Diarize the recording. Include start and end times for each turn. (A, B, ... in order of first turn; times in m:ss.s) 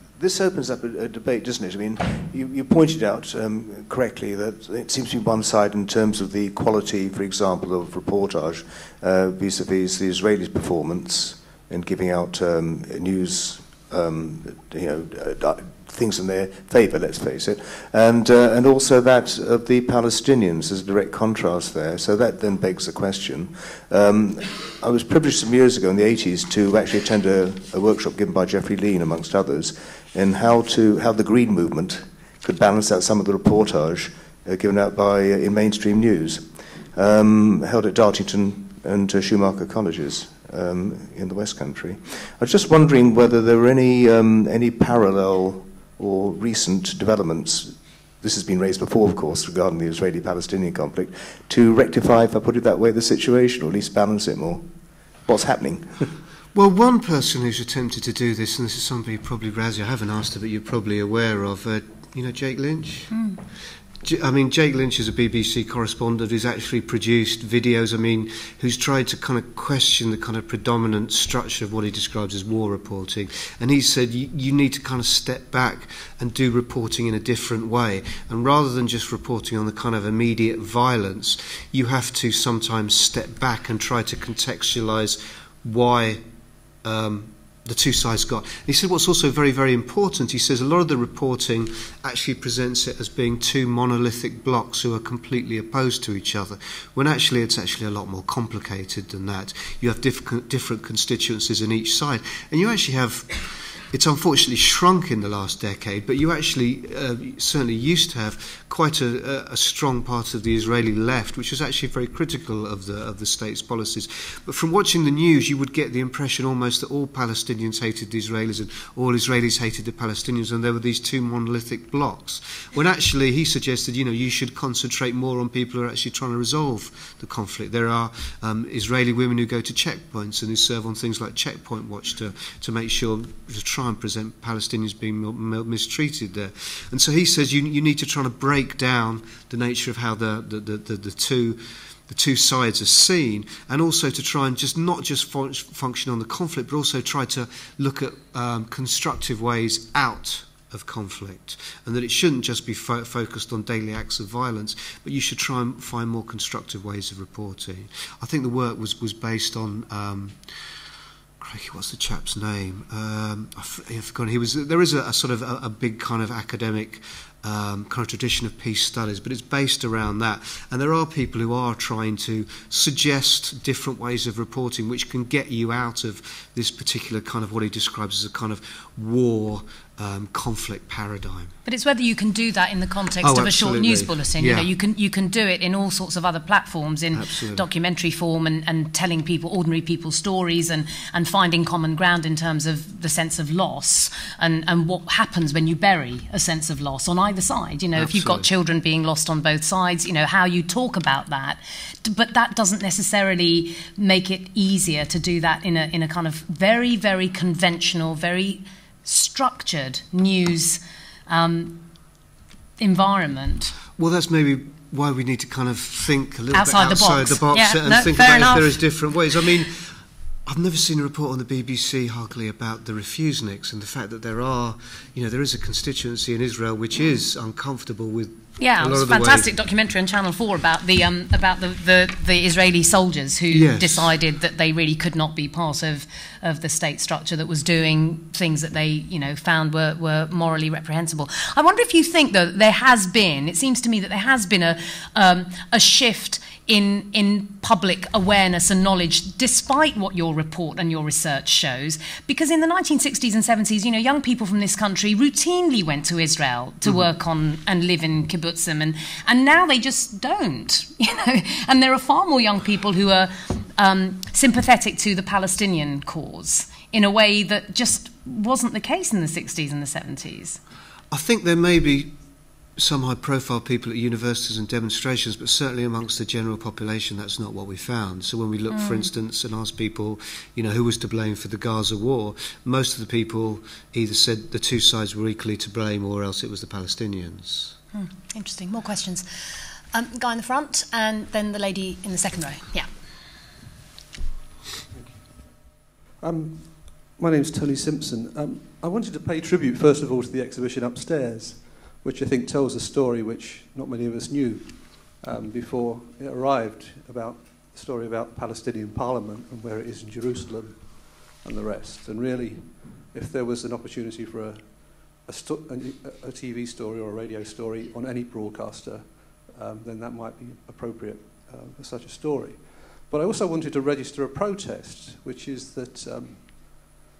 0:00.2-0:54.7 A
0:55.2-0:56.1 A
0:56.5-1:03.1 B
1:03.1-1:03.4 C
1:04.0-1:26.2 B
1:26.8-2:40.4 B
2:41.4-3:01.5 B
3:01.6-3:31.8 C
3:03.2-3:04.7 B
3:07.1-3:07.6 B
3:17.9-3:18.5 B
3:32.8-3:33.7 C
3:34.0-3:39.9 B
3:36.5-3:39.0 C
3:40.5-3:49.5 B
3:48.6-4:30.6 C
3:53.5-3:54.1 B
4:31.1-4:32.1 B
4:32.8-4:47.8 B
4:38.7-4:39.1 C
4:47.9-4:49.3 C
4:49.9-4:52.9 C
4:54.9-5:27.0 D